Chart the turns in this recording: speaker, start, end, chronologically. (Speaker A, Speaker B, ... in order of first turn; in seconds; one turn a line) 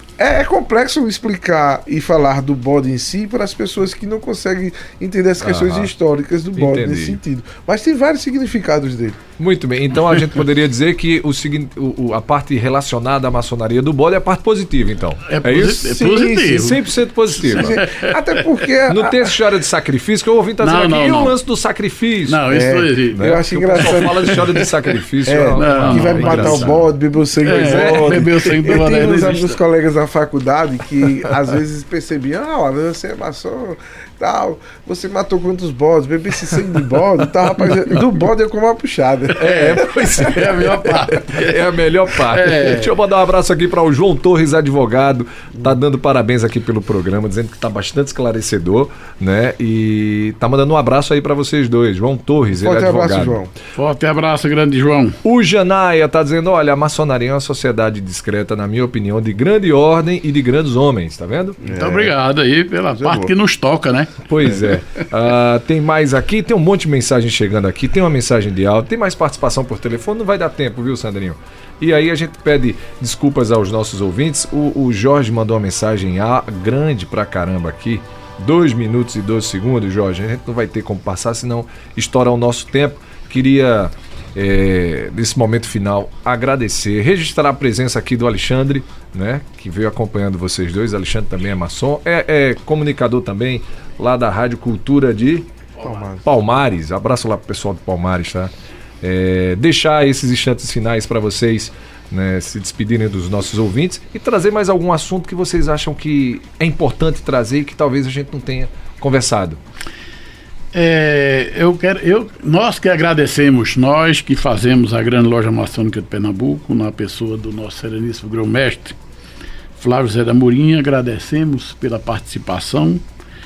Speaker A: 0.2-9.3
Speaker B: 5.4-5.9
Speaker B: 6.6-7.2
Speaker B: 9.4-17.8
Speaker C: 15.3-16.8
Speaker A: 15.9-16.6
Speaker C: 17.4-18.4
Speaker A: 17.5-19.4
Speaker B: 18.9-22.4
Speaker C: 20.6-21.4
Speaker C: 22.3-23.2
Speaker A: 22.5-24.4
Speaker B: 23.1-26.8
Speaker C: 23.9-24.7
Speaker A: 25.2-39.9
Speaker C: 25.6-26.8
Speaker C: 27.4-29.6
Speaker B: 27.5-28.3
Speaker C: 39.4-41.6
Speaker B: 39.4-53.4
Speaker C: 42.3-42.9
Speaker A: 52.6-53.5
Speaker C: 53.8-55.2
Speaker B: 55.2-61.6
Speaker A: 61.6-62.1
Speaker C: 61.6-64.7
Speaker A: 62.9-63.3
Speaker B: 64.3-95.5
Speaker A: 95.8-96.2
Speaker B: 96.2-109.6
Speaker C: 110.7-119.0
Speaker C: 119.8-123.0